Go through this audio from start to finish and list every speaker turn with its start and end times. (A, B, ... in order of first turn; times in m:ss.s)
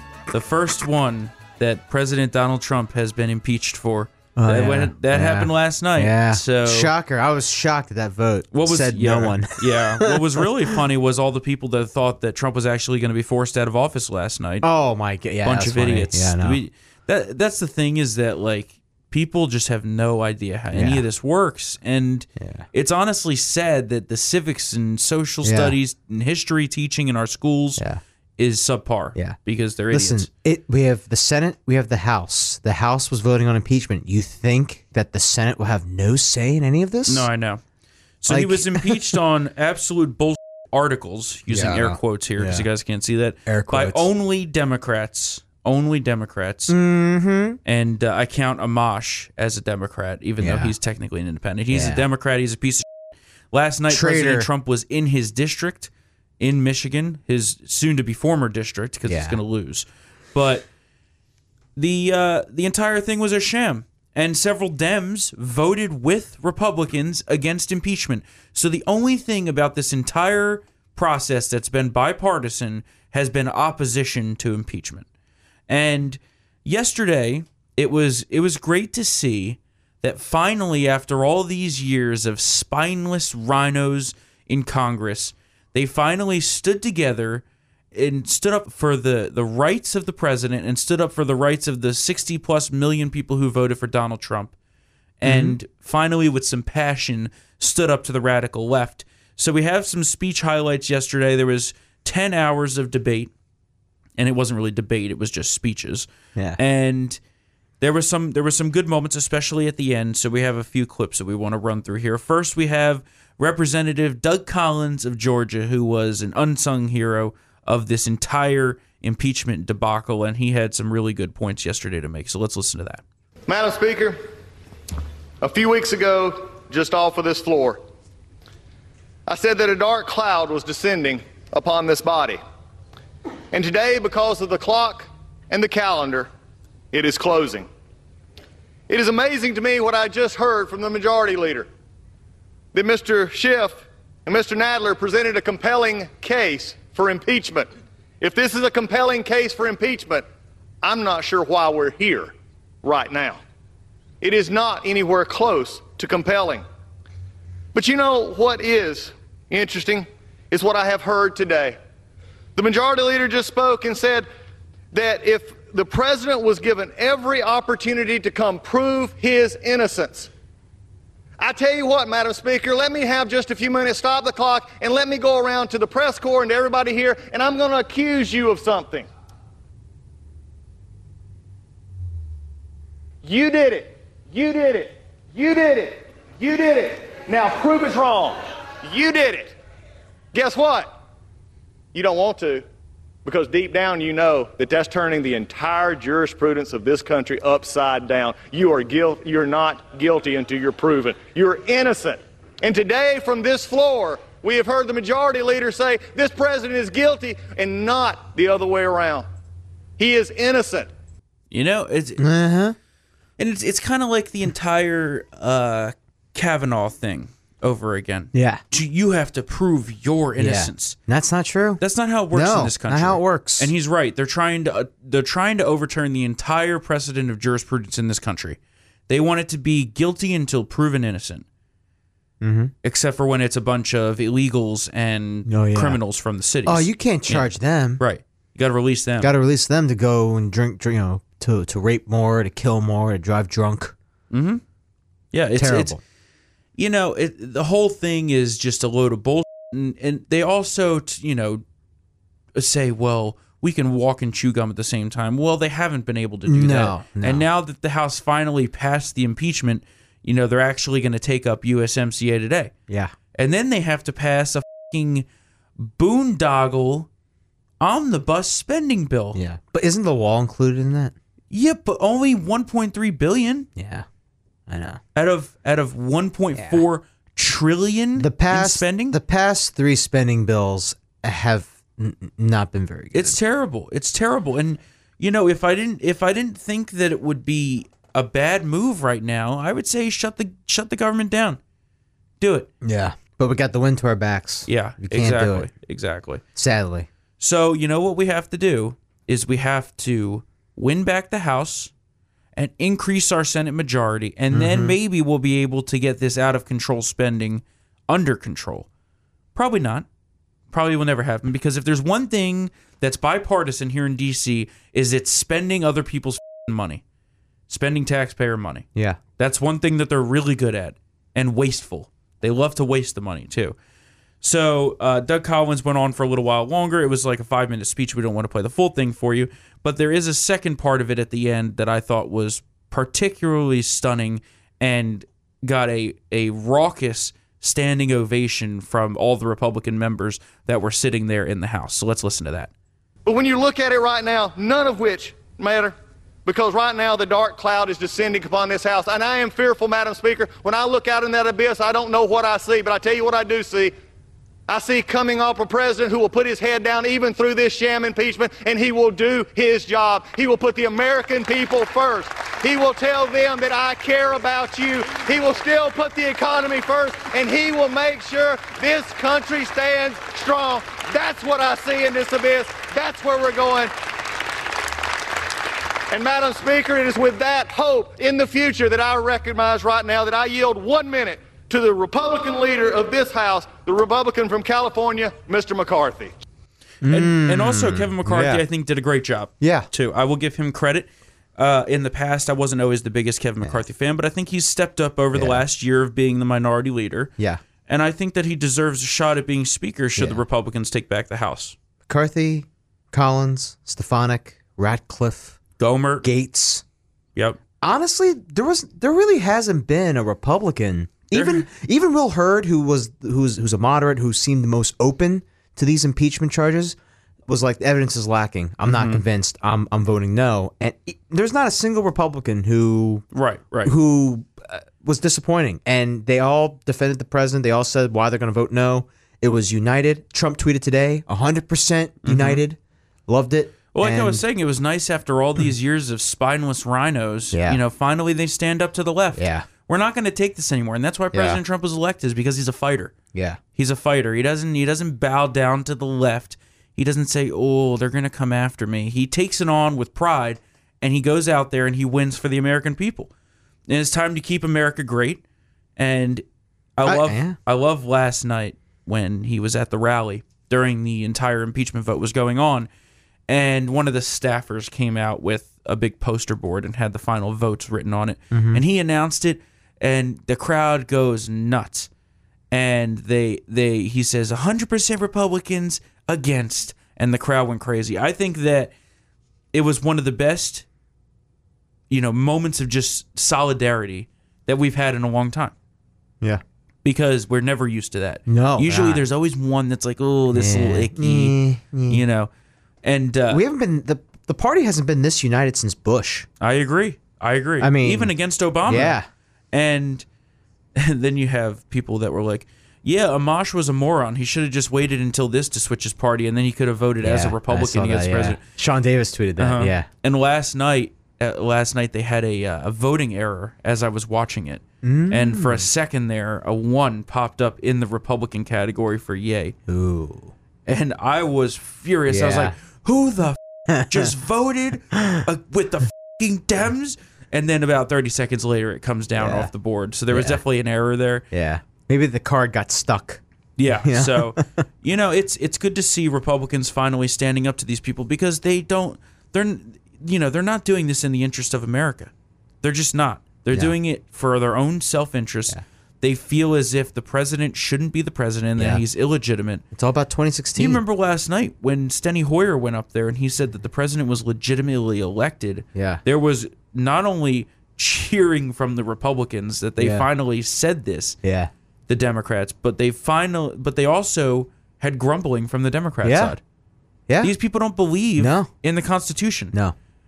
0:00.3-0:06.9 A
0:04.4-0:10.4 B
0:08.5-0:14.7 A
0:14.6-0:16.6 B
0:15.4-0:27.8 A
0:20.7-0:21.0 B
0:22.4-0:22.6 B
0:25.4-0:25.8 B
0:28.4-0:30.3 A
0:29.9-0:37.3 B
0:37.1-0:37.6 A
0:38.2-0:46.7 A
0:38.3-0:39.2 B
0:41.5-0:42.7 B
0:43.4-0:44.0 B
0:46.7-0:47.6 B
0:47.6-0:52.9 A
0:50.4-0:50.7 B
0:51.7-0:52.0 B
0:53.5-1:00.7 A
0:53.9-0:54.5 B
0:59.1-0:59.4 B
1:01.8-1:15.0 A
1:15.7-1:34.5 A
1:35.2-1:43.3 A
1:35.2-1:35.6 B
1:44.2-1:47.2 A
1:46.3-1:46.6 B
1:47.8-2:03.0 A
2:03.5-2:04.2 C
2:05.4-2:07.8 C
2:09.3-2:12.4 C
2:13.5-2:16.3 C
2:16.9-2:17.7 C
2:18.9-2:21.7 C
2:22.7-2:27.7 C
2:28.2-2:30.2 C
2:30.8-2:32.3 C
2:32.8-2:33.4 C
2:34.2-2:36.6 C
2:37.7-2:41.8 C
2:42.6-2:44.2 C
2:44.9-2:50.3 C
2:51.4-2:59.1 C
3:03.2-3:09.5 C
3:10.3-3:10.9 C
3:11.9-3:12.6 C
3:13.2-3:29.2 C
3:30.0-3:30.9 C
3:31.5-3:32.2 A
3:32.2-3:32.8 B
3:33.4-3:41.0 A
3:38.3-3:38.6 B
3:40.4-3:41.8 B
3:41.8-3:51.4 A
3:42.3-3:43.7 B
3:52.4-3:52.7 B
3:52.8-3:57.4 A
3:55.5-3:56.0 B
3:56.6-3:58.0 B
3:58.0-3:59.3 A
3:59.2-4:03.9 B
4:04.3-4:04.6 A
4:05.3-4:06.0 A
4:05.6-4:06.0 B
4:06.8-4:11.6 A
4:12.5-4:22.7 A
4:16.4-4:17.4 B
4:23.3-4:25.2 A
4:25.8-4:27.1 A
4:27.8-4:29.4 A
4:29.3-4:31.1 B
4:31.5-4:33.7 A
4:33.8-4:34.0 B
4:34.7-4:35.0 B
4:35.1-4:39.2 A
4:36.5-4:36.8 B
4:38.2-4:43.4 B
4:43.1-4:51.6 A
4:52.4-4:52.7 A
4:52.8-4:55.7 B
4:54.7-4:56.4 A
4:56.6-4:57.1 B
4:57.4-5:01.9 A
5:02.6-5:08.8 A
5:04.5-5:05.0 B
5:09.5-5:10.0 A
5:10.7-5:17.0 A
5:17.7-5:18.9 A
5:19.4-5:23.8 A
5:24.4-5:42.7 A
5:43.2-5:53.9 C
5:54.7-6:13.9 C
6:16.1-6:26.3 C
6:27.0-6:28.6 B
6:27.1-6:37.3 A
6:29.6-6:29.9 B
6:35.3-6:35.6 B
6:37.9-6:41.8 A
6:42.1-6:45.6 B
6:45.8-6:46.3 A
6:46.2-6:46.8 B
6:47.8-7:03.2 B
6:51.3-6:51.6 A
6:58.8-6:59.2 A
7:03.3-7:03.9 A
7:03.8-7:14.4 B
7:12.2-7:12.6 A
7:13.9-7:23.1 A
7:17.5-7:17.8 B
7:19.4-7:19.7 B
7:21.3-7:21.6 B
7:23.3-7:23.6 B
7:23.7-7:33.3 A
7:33.9-7:35.4 A
7:36.0-7:36.4 A
7:37.0-7:42.9 A
7:37.0-7:37.6 B
7:43.5-7:52.1 A
7:48.5-7:48.8 B
7:52.7-7:58.9 A
7:59.7-8:00.8 A
8:02.1-8:05.7 A
8:07.0-8:12.5 A
8:08.5-8:09.2 B
8:10.5-8:12.2 B
8:13.0-8:13.6 A
8:13.5-8:16.5 B
8:16.6-8:19.2 A
8:17.8-8:18.3 B
8:18.8-8:19.2 B
8:19.7-8:20.2 A
8:21.0-8:28.6 A
8:27.2-8:30.1 B
8:29.6-8:39.8 A
8:35.0-8:35.9 B
8:39.9-8:40.5 B
8:40.8-8:51.4 A
8:42.3-8:42.7 B
8:49.4-8:49.7 B
8:50.3-8:50.6 B
8:51.5-8:53.4 B
8:53.8-9:09.8 A
8:54.0-8:54.8 B
9:08.8-9:09.0 B
9:09.9-9:11.0 B
9:10.8-9:21.4 A
9:15.9-9:16.2 B
9:20.0-9:20.3 B
9:21.4-9:21.7 B
9:22.1-9:26.6 A
9:26.2-9:26.6 B
9:27.4-9:29.7 A
9:28.4-9:28.7 B